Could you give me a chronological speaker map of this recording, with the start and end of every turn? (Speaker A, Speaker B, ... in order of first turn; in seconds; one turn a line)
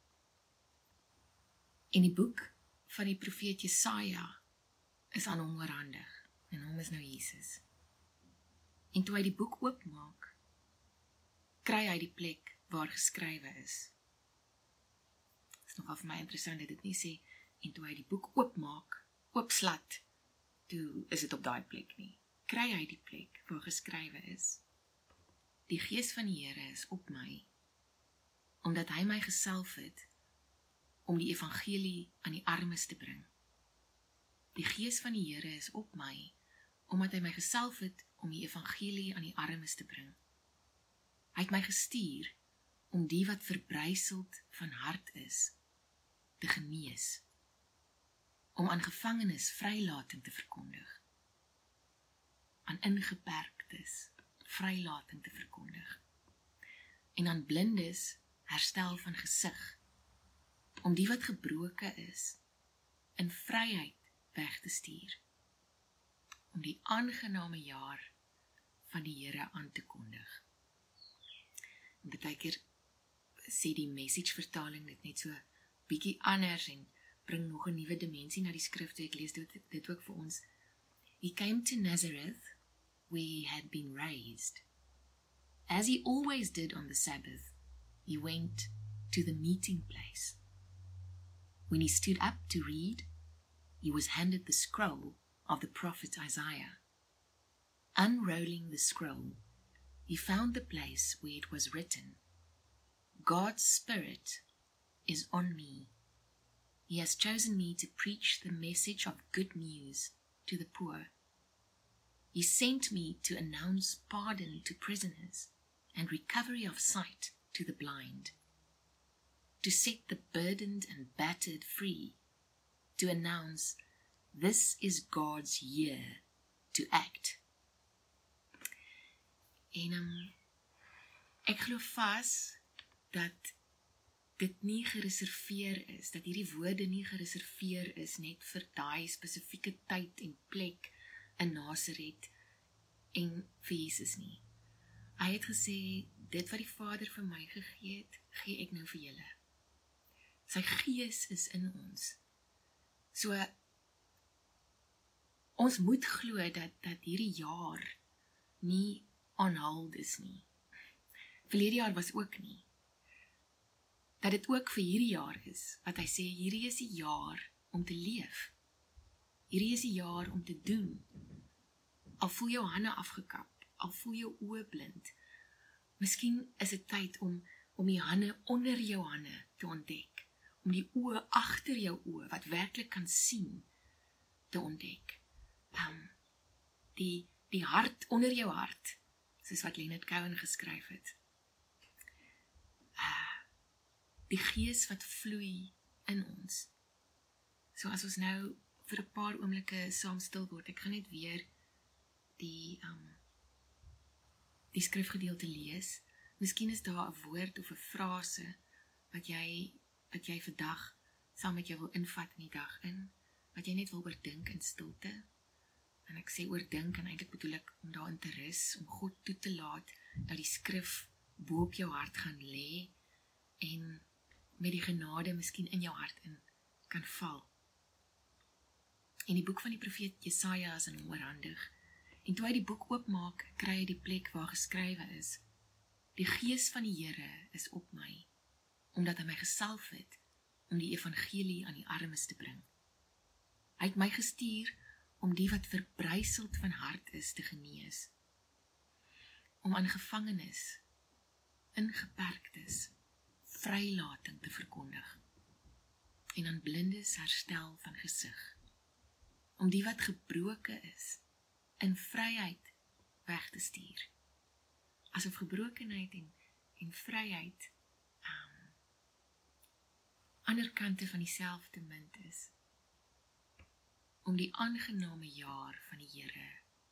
Speaker A: 1.9-4.4
Speaker A: 5.1-7.6
Speaker A: 8.9-10.3
Speaker A: 11.6-13.9
Speaker A: 15.7-20.0
Speaker A: 20.7-24.6
Speaker A: 25.7-27.5
Speaker A: 28.6-30.1
Speaker A: 31.0-33.3
Speaker A: 34.5-36.3
Speaker A: 36.9-40.1
Speaker A: 41.3-42.3
Speaker A: 42.9-45.5
Speaker A: 46.4-47.2
Speaker A: 48.5-51.0
Speaker A: 52.6-56.0
Speaker A: 57.1-59.8
Speaker A: 60.8-62.4
Speaker A: 63.2-65.2
Speaker A: 66.5-68.1
Speaker A: 68.8-70.4
Speaker A: 72.0-72.6
Speaker A: 73.5-80.4
Speaker A: 81.2-82.5
Speaker A: 83.1-84.6
Speaker A: 85.7-87.5
Speaker A: 88.0-90.4
Speaker A: 91.7-93.1
Speaker A: 93.8-96.8
Speaker A: 98.0-99.4
Speaker A: 100.1-102.2
Speaker A: 103.2-104.4
Speaker A: 105.0-105.9
Speaker A: 106.9-111.1
Speaker A: 112.3-118.3
Speaker A: 119.6-122.2
Speaker A: 123.0-123.8
Speaker A: 124.3-126.2
Speaker A: 126.7-127.4
Speaker A: 129.7-130.3
Speaker A: 131.5-132.6
Speaker A: 133.1-133.5
Speaker A: 134.4-142.3
Speaker A: 143.1-144.4
Speaker A: 145.2-149.3
Speaker A: 150.5-152.2
Speaker A: 153.1-153.5
Speaker A: 155.6-157.9
Speaker A: 158.6-160.5
Speaker A: 161.5-162.7
Speaker A: 164.2-168.5
Speaker A: 169.5-171.1
Speaker A: 172.2-175.1
Speaker A: 176.0-183.7
Speaker A: 184.5-185.2
Speaker A: 185.7-186.1
Speaker A: 186.9-191.2
Speaker A: 193.0-193.4
Speaker A: 194.3-196.7
Speaker A: 197.7-201.5
Speaker A: 202.4-203.2
Speaker A: 204.7-208.6
Speaker A: 209.1-215.2
Speaker A: 216.1-222.9
Speaker A: 223.6-224.0
Speaker A: 224.6-227.5
Speaker A: 229.3-231.7
Speaker A: 232.2-235.4
Speaker A: 236.2-238.3
Speaker A: 238.9-242.7
Speaker A: 243.8-248.1
Speaker A: 249.6-250.8
Speaker A: 251.7-252.9
Speaker A: 253.4-255.2
Speaker A: 256.4-258.6
Speaker A: 259.6-261.2
Speaker A: 261.8-262.7
Speaker A: 263.2-264.1
Speaker A: 265.1-267.7
Speaker A: 268.2-268.7
Speaker A: 270.4-272.5
Speaker A: 274.2-276.6